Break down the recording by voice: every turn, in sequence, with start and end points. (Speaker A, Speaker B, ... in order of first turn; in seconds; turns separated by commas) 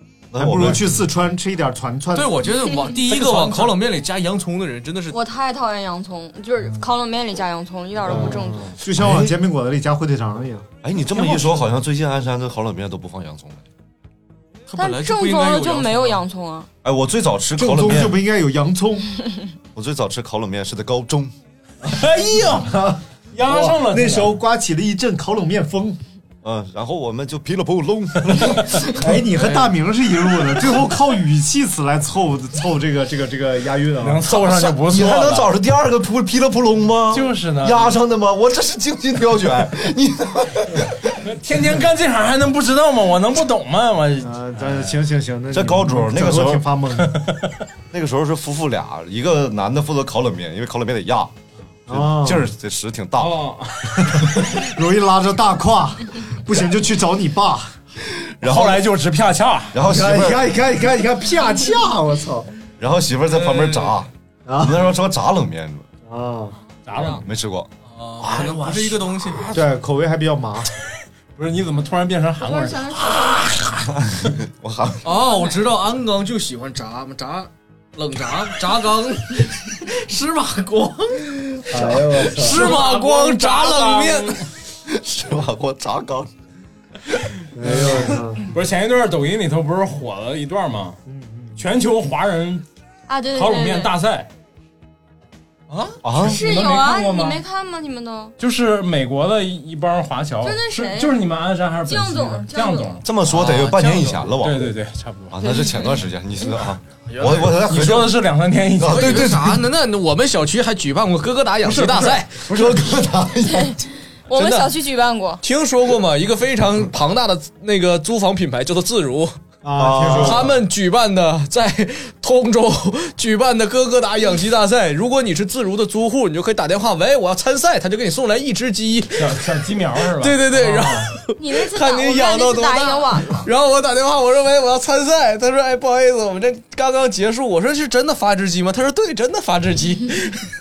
Speaker A: 0.3-1.0, Speaker B: 0.3-2.4, Speaker C: 2.1-5.2, Speaker B: 3.1-3.7, Speaker D: 5.1-8.8, Speaker B: 8.0-10.7, Speaker A: 8.9-9.3, Speaker A: 10.8-13.6, Speaker E: 11.2-11.6, Speaker C: 14.7-16.2, Speaker D: 14.8-16.7, Speaker A: 16.8-18.2, Speaker B: 17.6-19.1, Speaker E: 17.8-18.1, Speaker A: 19.7-21.3, Speaker E: 21.8-22.8, Speaker B: 22.4-26.0, Speaker E: 23.3-24.4, Speaker A: 26.4-29.1, Speaker B: 28.9-34.6, Speaker E: 34.0-35.5, Speaker A: 34.8-41.1, Speaker E: 37.1-38.0, Speaker E: 41.2-45.0, Speaker B: 44.2-47.2, Speaker A: 45.5-46.6, Speaker E: 47.0-47.4, Speaker A: 47.9-51.3, Speaker B: 51.9-52.5, Speaker A: 51.9-53.4, Speaker E: 53.2-54.2, Speaker B: 54.4-57.8, Speaker A: 58.4-58.8, Speaker E: 58.4-59.8, Speaker A: 59.7-60.5, Speaker B: 59.8-62.5, Speaker A: 62.8-65.9, Speaker B: 64.5-64.9, Speaker B: 66.0-66.6, Speaker E: 66.8-67.2, Speaker A: 67.0-67.7, Speaker C: 67.9-69.5, Speaker E: 68.2-69.6, Speaker B: 69.5-70.7, Speaker E: 71.3-74.3, Speaker D: 72.4-73.5, Speaker A: 74.0-75.2, Speaker C: 75.0-84.3, Speaker B: 81.7-82.8, Speaker E: 82.1-84.5, Speaker A: 84.8-86.3, Speaker B: 87.5-88.5, Speaker E: 87.6-91.0, Speaker B: 91.1-91.6, Speaker E: 91.5-92.6, Speaker D: 93.1-93.9, Speaker E: 93.3-94.3, Speaker C: 95.7-96.0, Speaker A: 96.0-96.5, Speaker E: 96.1-97.4, Speaker D: 96.2-98.3, Speaker E: 98.4-103.0, Speaker D: 100.4-101.2, Speaker D: 101.8-103.0, Speaker A: 103.0-104.7, Speaker C: 103.2-104.3, Speaker E: 104.4-105.4, Speaker A: 105.3-109.7, Speaker D: 105.4-105.9, Speaker C: 107.1-107.6, Speaker E: 107.5-109.3, Speaker C: 108.8-112.4, Speaker E: 111.6-112.9, Speaker A: 112.4-113.8, Speaker D: 113.4-115.4, Speaker C: 114.3-114.7, Speaker C: 115.4-119.3, Speaker B: 119.6-120.5, Speaker A: 119.7-120.5, Speaker C: 120.1-129.4, Speaker E: 129.2-131.1, Speaker C: 130.2-140.5, Speaker D: 131.4-133.4